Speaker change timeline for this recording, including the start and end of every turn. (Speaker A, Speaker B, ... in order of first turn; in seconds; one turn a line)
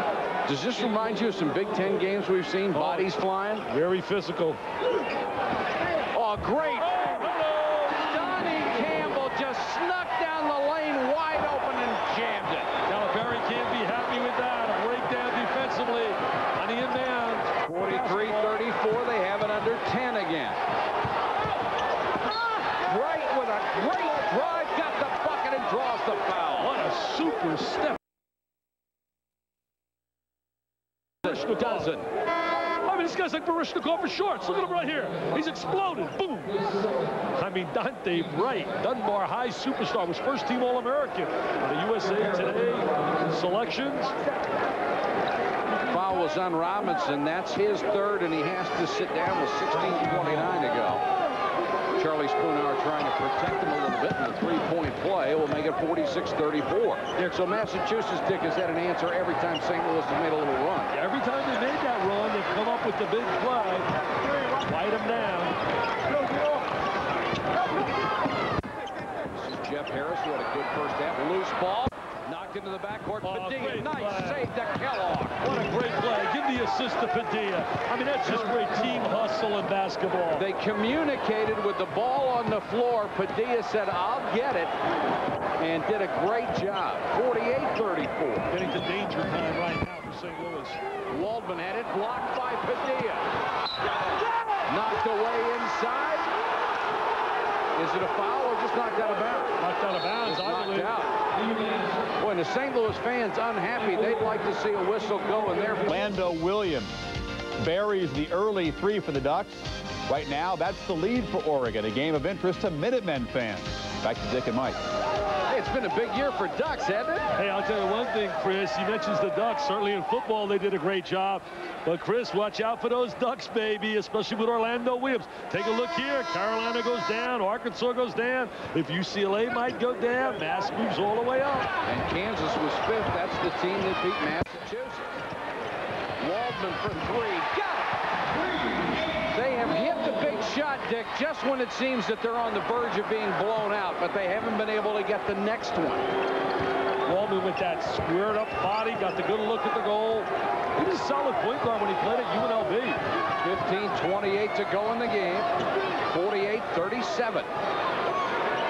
Speaker A: 0.5-3.7
Speaker B: 2.7-3.1
Speaker B: 3.7-4.6
Speaker A: 6.1-7.1
Speaker B: 6.8-8.1
Speaker A: 7.9-12.7
Speaker B: 12.9-18.5
Speaker A: 17.7-20.6
Speaker A: 22.9-26.8
Speaker B: 26.6-28.0
Speaker B: 31.2-32.0
Speaker A: 31.7-32.0
Speaker B: 32.8-36.7
Speaker B: 37.4-44.1
Speaker A: 45.9-51.0
Speaker A: 52.0-60.9
Speaker B: 60.9-63.9
Speaker B: 64.6-65.6
Speaker A: 69.3-75.4
Speaker B: 73.2-74.5
Speaker B: 75.4-80.5
Speaker A: 80.4-84.7
Speaker A: 85.6-88.5
Speaker B: 88.5-90.8
Speaker A: 91.1-93.3
Speaker A: 94.7-96.3
Speaker A: 97.8-99.6
Speaker B: 99.6-100.9
Speaker A: 100.2-101.3
Speaker A: 102.2-105.9
Speaker C: 105.9-107.0
Speaker C: 107.6-114.8
Speaker A: 115.5-117.3
Speaker B: 117.4-131.7
Speaker A: 131.9-135.1
Speaker A: 136.2-137.9
Speaker A: 139.3-146.1
Speaker B: 147.1-153.0
Speaker A: 153.4-155.5
Speaker A: 156.1-157.5